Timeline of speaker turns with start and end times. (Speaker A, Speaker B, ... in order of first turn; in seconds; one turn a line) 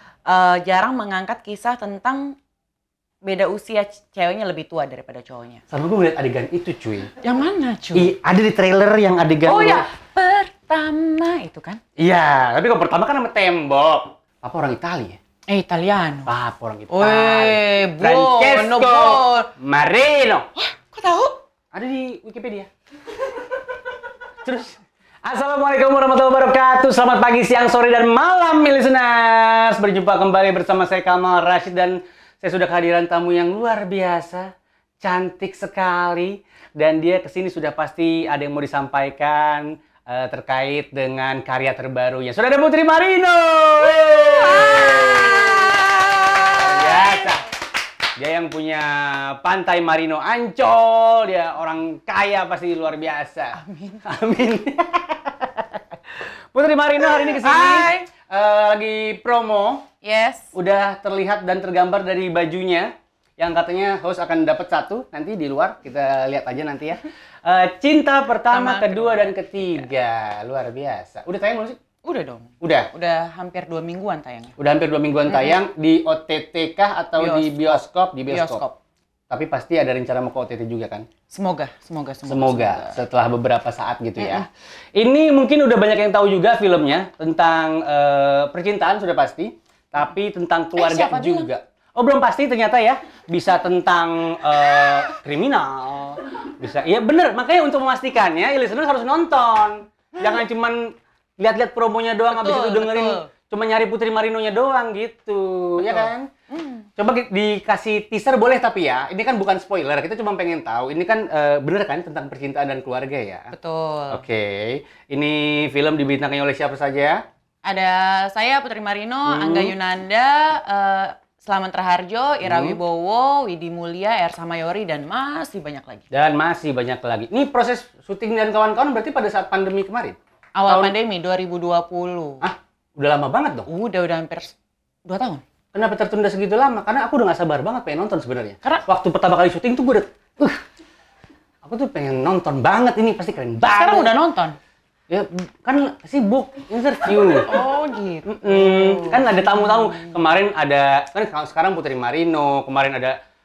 Speaker A: 0.3-2.4
Speaker A: 3.2-5.6
Speaker B: 5.7-7.1
Speaker A: 7.2-8.1
Speaker B: 8.0-9.9
Speaker A: 9.4-11.8
Speaker B: 12.0-15.2
Speaker A: 15.5-16.3
Speaker B: 16.3-20.5
Speaker A: 16.9-19.5
Speaker A: 20.6-21.4
Speaker B: 21.7-22.7
Speaker B: 24.4-34.5
Speaker B: 35.0-45.8
Speaker A: 44.0-47.1
Speaker B: 46.4-47.5
Speaker B: 48.2-59.9
Speaker A: 53.5-54.0
Speaker A: 57.3-58.1
Speaker A: 60.0-60.5
Speaker B: 60.5-71.8
Speaker A: 68.5-69.2
Speaker A: 72.0-74.5
Speaker B: 72.6-72.9
Speaker B: 74.6-78.6
Speaker A: 75.3-75.6
Speaker A: 77.2-78.8
Speaker B: 79.3-81.1
Speaker A: 81.3-83.0
Speaker B: 82.3-106.3
Speaker A: 84.2-84.5
Speaker A: 90.8-91.5
Speaker A: 102.3-103.3
Speaker A: 105.8-106.9
Speaker B: 107.0-113.5
Speaker A: 113.5-114.2
Speaker B: 114.1-117.2
Speaker A: 117.7-126.1
Speaker B: 119.3-119.8
Speaker B: 122.4-122.8
Speaker B: 126.1-130.2
Speaker A: 130.6-132.4
Speaker B: 130.7-130.9
Speaker B: 132.4-133.7
Speaker A: 133.7-135.4
Speaker B: 135.7-140.6
Speaker B: 141.6-144.1
Speaker A: 143.6-144.6
Speaker B: 145.1-147.6
Speaker A: 147.4-150.2
Speaker B: 148.3-153.2